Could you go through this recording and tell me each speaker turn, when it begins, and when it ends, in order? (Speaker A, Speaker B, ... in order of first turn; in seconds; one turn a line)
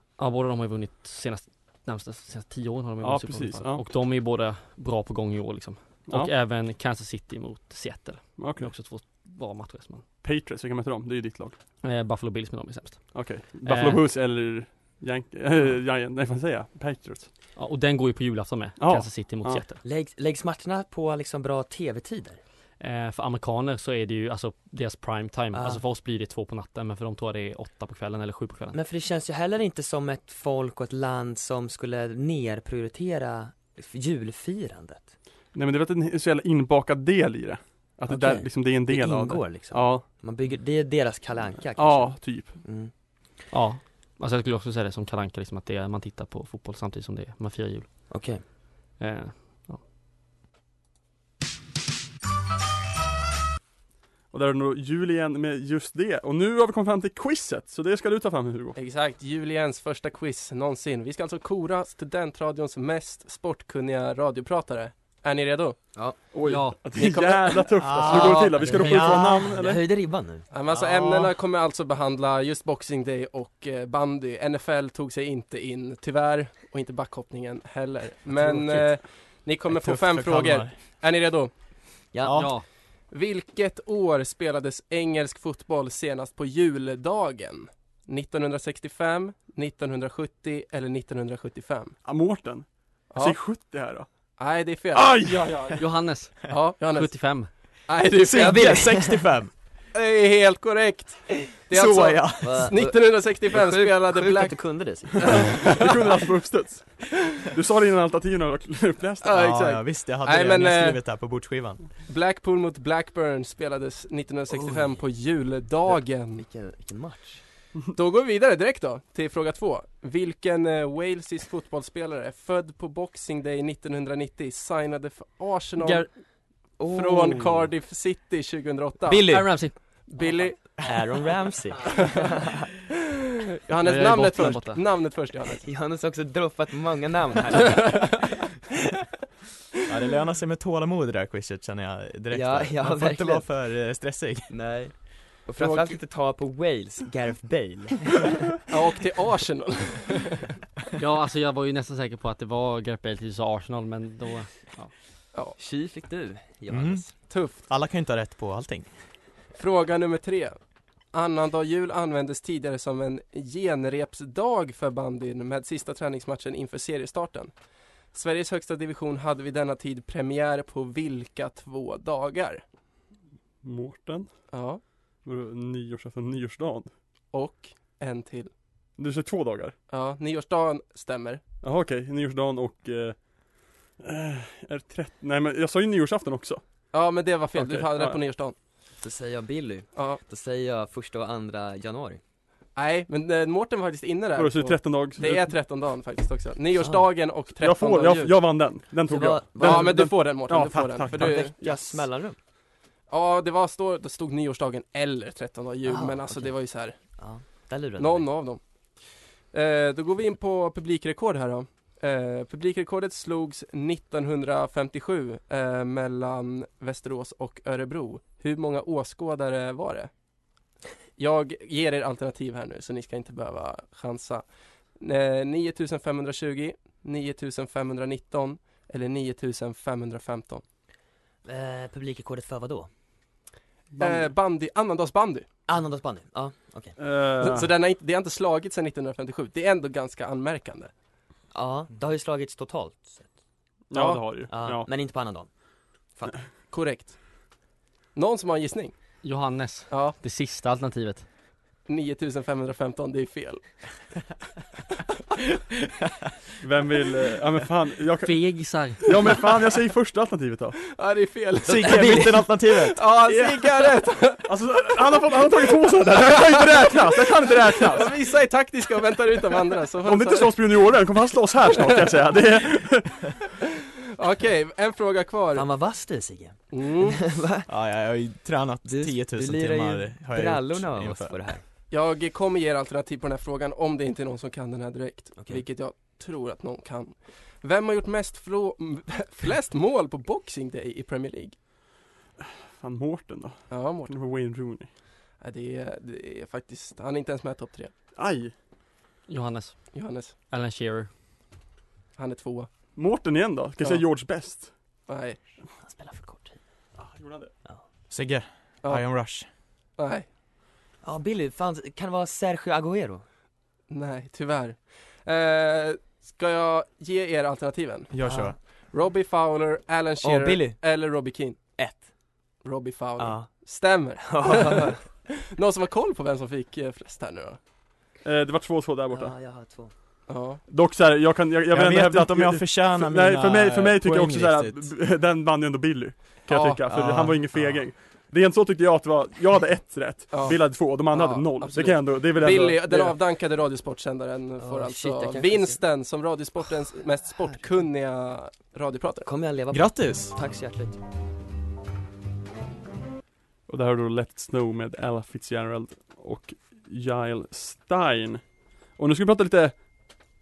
Speaker A: 0.2-10.0
Speaker B: 3.0-3.9
Speaker B: 8.4-8.7
Speaker B: 10.2-11.6
Speaker A: 11.8-14.0
Speaker B: 13.1-17.3
Speaker A: 17.6-19.8
Speaker B: 18.8-19.6
Speaker C: 19.8-22.4
Speaker A: 22.8-28.8
Speaker C: 25.5-25.8
Speaker C: 28.7-35.1
Speaker B: 35.5-40.0
Speaker C: 38.1-42.9
Speaker B: 41.8-42.6
Speaker A: 43.5-47.9
Speaker C: 48.1-48.4
Speaker A: 49.0-49.8
Speaker B: 54.3-58.8
Speaker D: 58.8-65.8
Speaker B: 66.3-69.8
Speaker A: 66.4-67.4
Speaker D: 67.0-67.7
Speaker E: 67.8-68.5
Speaker C: 68.0-71.3
Speaker A: 68.7-69.1
Speaker D: 70.5-81.5
Speaker C: 78.4-78.8
Speaker E: 79.7-80.8
Speaker C: 82.1-82.5
Speaker E: 82.2-82.5
Speaker A: 82.3-82.6
Speaker D: 83.1-91.9
Speaker B: 92.0-94.1
Speaker D: 93.1-93.4
Speaker D: 94.4-95.4
Speaker B: 94.9-95.8
Speaker A: 95.7-97.5
Speaker D: 96.5-98.9
Speaker E: 98.2-99.5
Speaker C: 98.3-99.2
Speaker D: 99.9-104.8
Speaker E: 101.7-102.7
Speaker C: 102.4-105.9
Speaker D: 105.3-105.9
Speaker B: 105.3-109.4
Speaker D: 109.2-111.0
Speaker E: 109.3-111.9
Speaker D: 112.0-116.4
Speaker C: 114.5-114.9
Speaker C: 115.9-117.4
Speaker D: 117.9-126.1
Speaker A: 125.8-126.1
Speaker C: 126.8-127.7
Speaker D: 126.9-130.7
Speaker A: 129.1-130.1
Speaker C: 129.1-129.4
Speaker C: 130.2-132.7
Speaker D: 131.9-132.2
Speaker D: 133.6-135.6
Speaker A: 133.8-134.8
Speaker C: 135.6-138.4
Speaker D: 137.7-138.1
Speaker E: 139.9-144.5
Speaker C: 142.3-143.5
Speaker C: 144.5-148.6
Speaker D: 145.6-145.9
Speaker D: 148.7-150.5
Speaker A: 151.0-154.9
Speaker C: 155.6-157.1
Speaker E: 156.7-158.9
Speaker D: 157.3-157.6
Speaker D: 159.5-160.6
Speaker D: 161.1-167.5
Speaker D: 168.1-172.6
Speaker B: 173.6-174.5
Speaker D: 174.5-174.8
Speaker B: 175.2-176.9
Speaker D: 177.3-178.5
Speaker B: 179.0-179.7
Speaker D: 179.9-181.4
Speaker B: 181.6-186.6
Speaker D: 186.9-188.5
Speaker B: 187.5-188.2
Speaker C: 189.0-192.2
Speaker D: 189.9-190.2
Speaker D: 192.8-198.4
Speaker B: 194.3-195.5
Speaker C: 196.8-197.1
Speaker B: 197.6-202.0
Speaker C: 199.0-200.0
Speaker D: 199.6-201.6
Speaker C: 201.1-202.4
Speaker D: 203.1-207.0
Speaker C: 205.8-206.5
Speaker C: 207.2-208.3
Speaker D: 208.0-208.6
Speaker D: 209.5-220.1
Speaker D: 221.2-230.6
Speaker C: 231.4-232.9
Speaker B: 233.9-234.3
Speaker D: 234.0-235.5
Speaker C: 235.7-237.1
Speaker B: 237.0-237.7
Speaker D: 237.4-240.9
Speaker C: 241.5-243.3
Speaker B: 243.9-244.9
Speaker D: 243.9-244.4
Speaker C: 244.5-246.5
Speaker D: 246.7-247.2
Speaker D: 248.1-248.9
Speaker A: 249.2-251.3
Speaker D: 249.9-250.2
Speaker D: 251.8-253.6
Speaker B: 256.6-260.8
Speaker A: 258.2-259.3
Speaker D: 260.8-264.5
Speaker E: 261.6-263.8
Speaker C: 261.8-262.2
Speaker B: 264.4-268.1
Speaker D: 266.2-270.6
Speaker B: 270.0-273.4
Speaker D: 274.1-275.6
Speaker C: 275.5-277.7
Speaker D: 276.7-277.2
Speaker E: 277.7-281.4
Speaker C: 278.9-281.6
Speaker D: 281.9-291.6
Speaker C: 285.4-285.6
Speaker B: 292.4-294.9
Speaker D: 293.7-294.1
Speaker D: 295.4-297.9
Speaker B: 298.1-298.5
Speaker A: 299.3-301.1
Speaker D: 299.9-300.3
Speaker D: 302.1-302.7
Speaker B: 302.9-304.7
Speaker D: 305.1-305.6
Speaker C: 305.8-306.6
Speaker B: 307.0-307.5
Speaker E: 308.1-309.5
Speaker D: 308.8-309.1
Speaker D: 310.0-310.3
Speaker C: 311.0-313.2
Speaker D: 313.9-318.1
Speaker E: 318.1-318.6
Speaker C: 318.2-318.6
Speaker D: 318.9-321.7
Speaker C: 320.2-320.8
Speaker C: 321.8-322.1
Speaker D: 322.6-327.6
Speaker C: 323.2-323.5
Speaker C: 324.2-325.1
Speaker B: 328.2-329.3
Speaker C: 329.1-329.9
Speaker D: 330.3-330.6
Speaker B: 330.7-343.1
Speaker E: 331.7-334.9
Speaker D: 336.4-336.9
Speaker E: 336.9-337.9
Speaker D: 340.3-349.3
Speaker C: 344.6-345.8
Speaker C: 349.2-351.0
Speaker E: 349.7-350.3
Speaker B: 353.7-360.0